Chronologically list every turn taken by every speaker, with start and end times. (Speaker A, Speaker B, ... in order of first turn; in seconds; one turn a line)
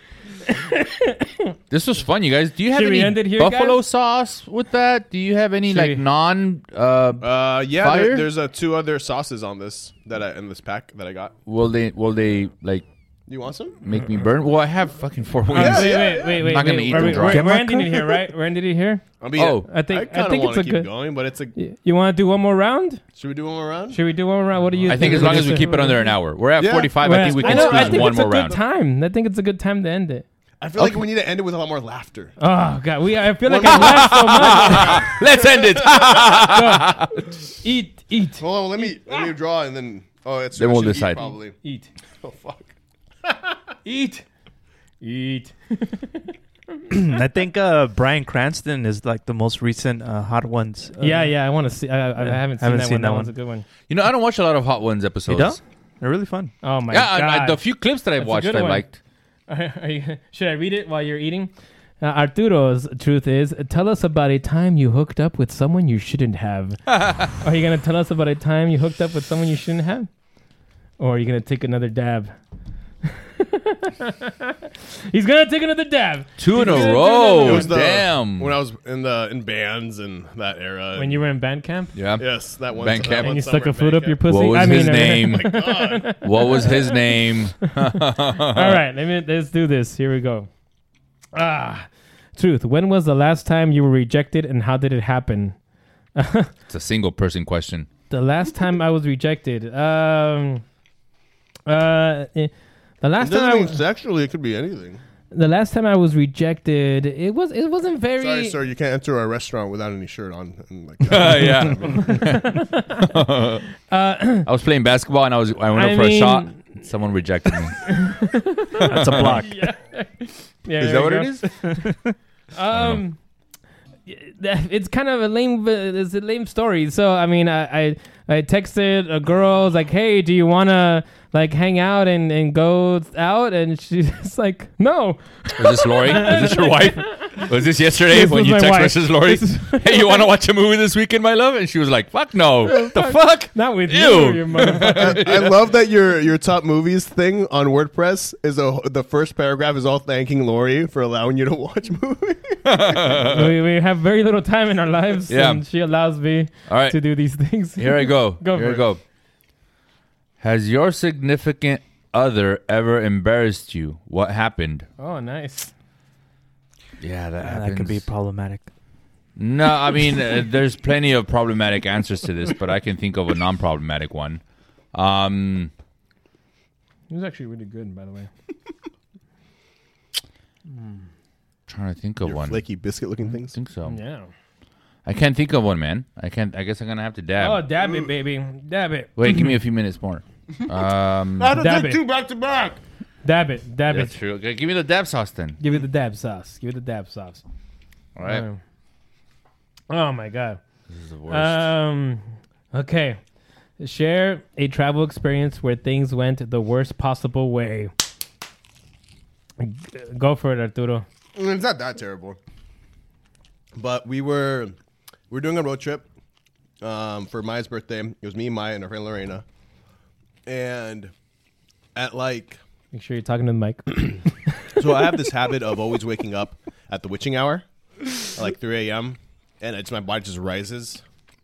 Speaker A: 0.5-1.5
Speaker B: 1.7-8.3
Speaker A: 2.7-3.8
Speaker A: 5.7-6.0
Speaker C: 7.2-11.3
Speaker B: 11.5-12.8
Speaker C: 13.3-13.8
Speaker B: 13.8-17.5
Speaker A: 15.5-19.0
Speaker C: 15.5-16.5
Speaker D: 17.1-18.2
Speaker C: 19.2-21.5
Speaker B: 19.4-19.7
Speaker A: 19.7-20.9
Speaker A: 21.6-23.0
Speaker C: 23.2-24.0
Speaker A: 23.9-26.1
Speaker B: 24.9-28.6
Speaker D: 25.2-25.6
Speaker C: 26.6-28.1
Speaker A: 27.0-30.2
Speaker C: 30.6-32.4
Speaker A: 32.4-35.1
Speaker C: 33.5-36.4
Speaker B: 33.7-37.1
Speaker A: 36.5-39.2
Speaker C: 38.4-41.6
Speaker B: 40.6-41.3
Speaker A: 41.6-41.9
Speaker C: 42.2-42.7
Speaker C: 43.3-43.5
Speaker A: 43.9-44.2
Speaker A: 45.0-46.3
Speaker D: 46.9-51.3
Speaker A: 51.0-53.7
Speaker D: 52.2-53.3
Speaker B: 53.9-55.6
Speaker D: 55.3-56.5
Speaker A: 56.6-57.6
Speaker B: 56.9-59.0
Speaker A: 58.2-58.9
Speaker A: 59.5-66.8
Speaker B: 66.9-67.3
Speaker A: 67.4-70.1
Speaker A: 71.0-72.3
Speaker A: 73.4-74.5
Speaker A: 75.1-77.7
Speaker B: 76.4-78.6
Speaker C: 77.4-81.2
Speaker A: 81.0-82.0
Speaker B: 82.0-83.3
Speaker C: 82.2-84.2
Speaker A: 83.1-90.5
Speaker B: 84.3-85.5
Speaker C: 85.1-86.2
Speaker B: 86.2-88.8
Speaker A: 91.3-95.6
Speaker A: 96.2-96.5
Speaker B: 96.7-97.9
Speaker A: 98.1-100.6
Speaker A: 101.7-103.8
Speaker C: 103.2-105.0
Speaker A: 105.3-108.6
Speaker C: 108.2-112.2
Speaker B: 111.1-113.6
Speaker A: 112.1-113.1
Speaker A: 113.9-114.5
Speaker B: 114.5-118.0
Speaker A: 115.8-116.6
Speaker A: 117.8-121.6
Speaker D: 118.8-119.7
Speaker B: 118.9-119.4
Speaker B: 120.8-121.5
Speaker A: 122.5-123.2
Speaker B: 122.7-123.0
Speaker A: 124.1-137.4
Speaker B: 135.6-145.6
Speaker A: 138.1-140.3
Speaker A: 142.7-145.2
Speaker C: 144.8-153.2
Speaker B: 152.7-153.5
Speaker A: 153.3-158.9
Speaker B: 155.3-155.6
Speaker B: 156.7-157.0
Speaker B: 157.8-159.0
Speaker B: 160.4-164.9
Speaker A: 165.0-165.7
Speaker B: 167.0-168.1
Speaker D: 167.4-168.7
Speaker B: 169.4-174.4
Speaker B: 174.9-175.7
Speaker A: 177.1-178.3
Speaker B: 181.7-182.6
Speaker C: 182.2-183.6
Speaker B: 183.5-184.0
Speaker A: 183.8-184.3
Speaker B: 185.1-187.6
Speaker A: 187.4-189.4
Speaker C: 187.8-188.1
Speaker B: 189.2-191.5
Speaker C: 191.4-192.8
Speaker A: 191.6-192.0
Speaker A: 193.2-194.1
Speaker B: 193.9-195.6
Speaker A: 195.6-197.4
Speaker B: 198.2-198.4
Speaker A: 198.2-198.6
Speaker A: 199.9-200.6
Speaker B: 200.9-201.7
Speaker A: 201.3-203.2
Speaker A: 203.8-207.9
Speaker A: 209.6-211.1
Speaker C: 211.3-212.4
Speaker C: 213.8-214.8
Speaker C: 215.3-216.1
Speaker C: 216.8-219.4
Speaker C: 220.5-221.1
Speaker C: 221.9-222.6
Speaker A: 222.9-224.4
Speaker C: 224.8-227.7
Speaker C: 228.3-231.0